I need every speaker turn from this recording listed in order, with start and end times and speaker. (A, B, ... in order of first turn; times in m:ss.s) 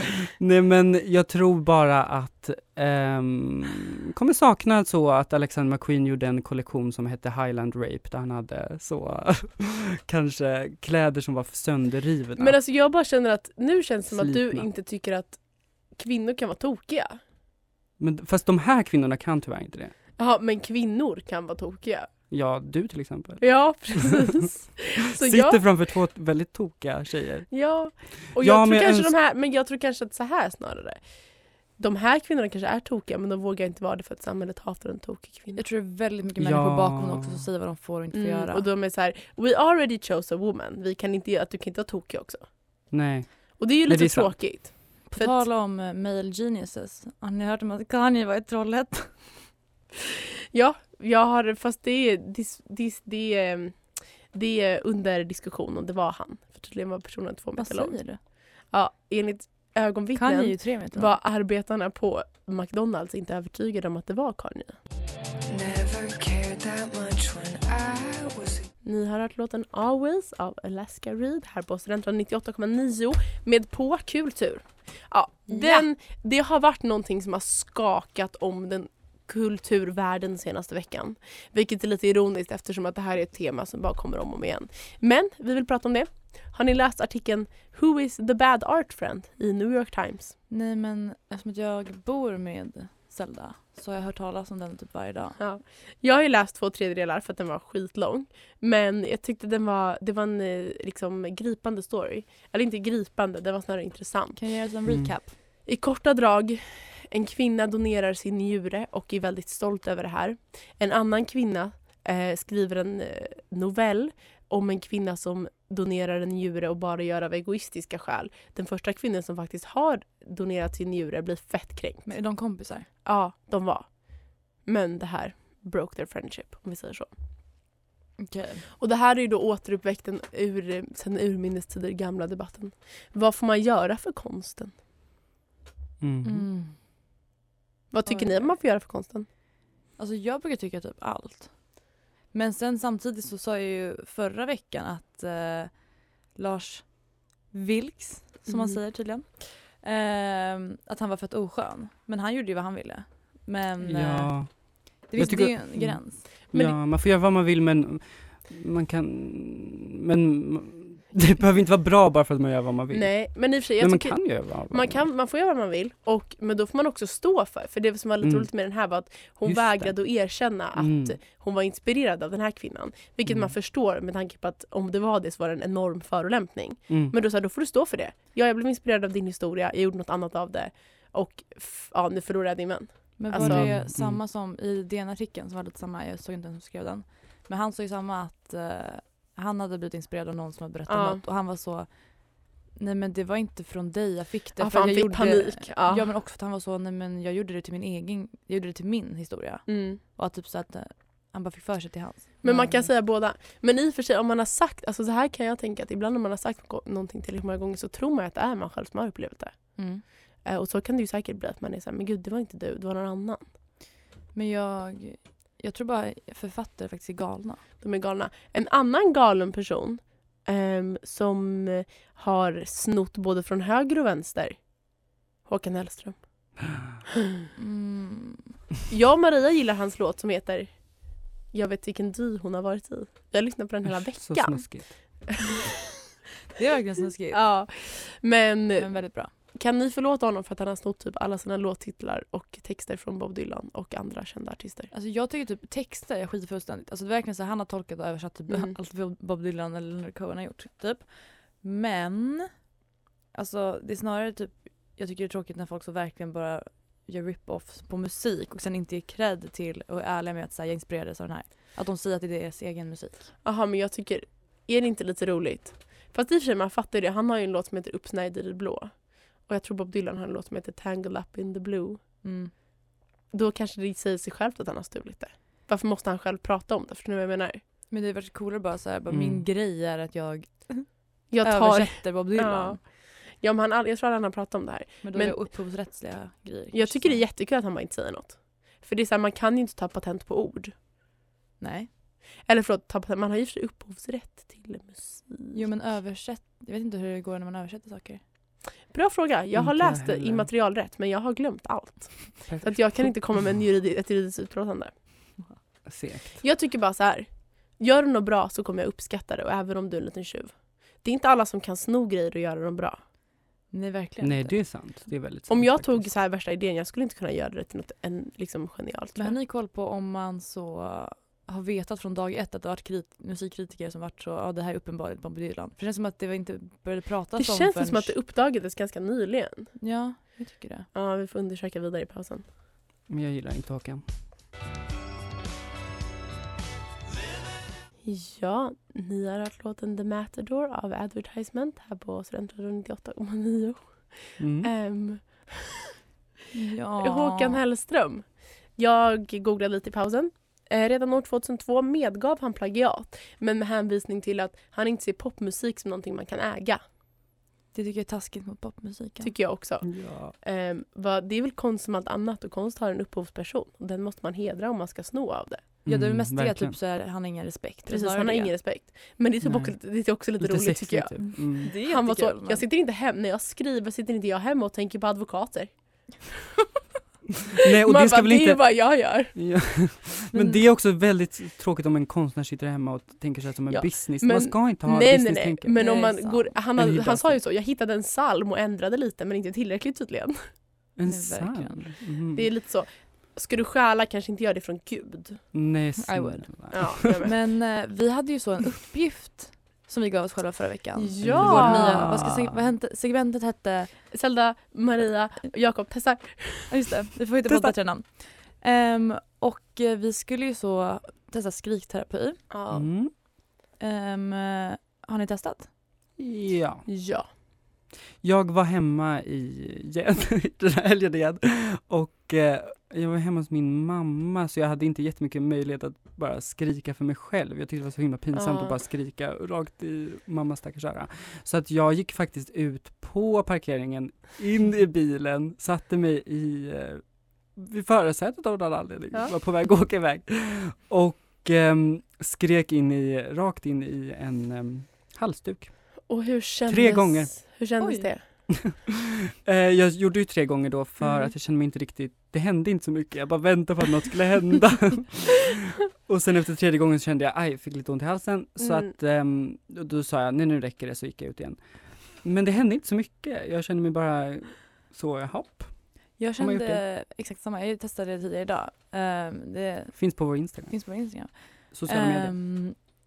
0:00.4-0:12.6 A
0:12.4-0:15.4 B
0:14.1-0:14.7 A
0:15.9-0:17.2 B
0:18.0-0:19.9 A
0:20.2-0:22.1 B
0:22.3-0:24.2 A
0:23.4-0:25.6 B
0:25.2-0:27.5 A
0:27.5-0:31.0 B
0:28.3-0:29.1 A
0:31.8-0:35.6 B
0:35.6-0:38.6 C
0:36.4-0:37.5 A
0:38.1-0:42.4 B
0:42.9-0:44.6 A
0:43.6-0:45.4 B
0:45.1-0:49.2 C
0:50.5-1:04.8 B
0:57.6-0:58.2 C
1:00.1-1:01.1 C
1:05.5-1:08.7 D
1:08.8-1:30.3 B
1:15.5-1:15.9 C
1:30.5-1:35.4 C
1:35.4-1:44.4 B
1:44.4-1:45.4 C
1:45.6-2:02.1 B
2:02.0-2:02.9 C
2:03.0-2:07.1 B
2:08.2-2:08.6 C
2:08.8-2:14.8 B
2:16.0-2:16.5 A
2:16.2-2:16.8 C
2:17.9-2:19.3 B
2:18.1-2:18.6 C
2:20.0-2:21.8 C
2:22.3-2:36.2 C
2:28.5-2:28.8 B
2:33.8-2:45.0 A
2:42.9-3:03.7 B
2:48.2-2:48.5 A
2:49.4-2:51.2 A
2:53.2-2:53.5 A
2:56.9-2:57.2 A
3:03.2-3:22.9 C
3:03.4-3:04.2 A
3:10.9-3:11.2 B
3:14.6-3:16.1 B
3:19.7-3:20.0 B
3:22.4-3:33.5 B
3:29.8-3:30.0 C
3:34.3-3:37.6 C
3:37.8-3:46.6 B
3:47.6-3:48.5 C
3:48.9-3:55.6 B
3:53.8-3:55.2 A
3:56.6-3:57.4 C
3:57.3-4:04.9 B
3:58.8-3:59.3 C
4:04.9-4:12.5 C
4:08.5-4:08.7 B
4:13.3-4:23.3 C
4:23.4-4:32.0 B
4:32.2-4:32.5 C
4:33.3-4:37.6 B
4:37.9-4:42.8 C
4:39.1-4:39.4 A
4:41.3-4:45.5 B
4:45.0-4:47.2 C
4:46.7-4:50.8 B
4:51.6-4:51.9 C
4:52.5-4:55.6 B
4:55.5-4:58.2 C
4:58.9-5:05.3 B
4:59.6-5:00.5 A
5:02.4-5:03.0 A
5:05.9-5:06.4 A
5:06.4-5:13.0 B
5:13.7-5:14.6 C
5:14.2-5:16.1 A
5:15.5-5:19.3 B
5:19.2-5:28.1 C
5:27.4-5:29.7 B
5:29.8-5:30.9 C
5:30.9-5:32.5 B
5:33.1-5:34.0 A
5:38.0-5:45.7 B
5:44.4-5:44.7 A
5:46.5-5:47.6 C
5:47.0-5:56.8 B
5:57.7-5:59.3 C
5:59.2-6:05.8 B
5:59.8-6:00.4 A
6:05.8-6:06.8 A
6:05.8-6:08.5 C
6:07.9-6:16.3 B
6:09.4-6:11.7 A
6:11.6-6:12.6 C
6:17.6-6:25.8 A
6:17.8-6:19.3 B
6:20.3-6:20.6 C
6:23.8-6:30.6 B
6:25.8-6:26.6 C
6:26.8-6:27.4 A
6:31.0-6:32.5 A
6:31.1-6:31.9 C
6:32.4-6:35.4 B
6:35.5-6:37.2 A
6:36.0-6:44.0 C
6:36.7-6:37.4 B
6:41.0-6:42.1 B
6:41.2-6:42.6 A
6:44.1-6:46.8 B
6:46.7-6:52.4 C
6:52.5-6:52.9 B
6:52.7-6:53.1 A
6:53.8-6:55.7 C
6:56.2-6:56.8 A
6:56.9-6:57.3 B
6:58.2-7:17.0 A
7:08.3-7:08.8 B
7:17.5-7:26.0 A
7:26.1-7:28.4 B
7:26.7-7:27.6 A
7:27.8-7:28.1 C
7:28.6-7:28.9 A
7:29.4-7:46.8 A
7:31.0-7:31.3 B
7:38.6-7:38.9 B
7:46.2-7:52.8 C
7:49.9-7:52.3 A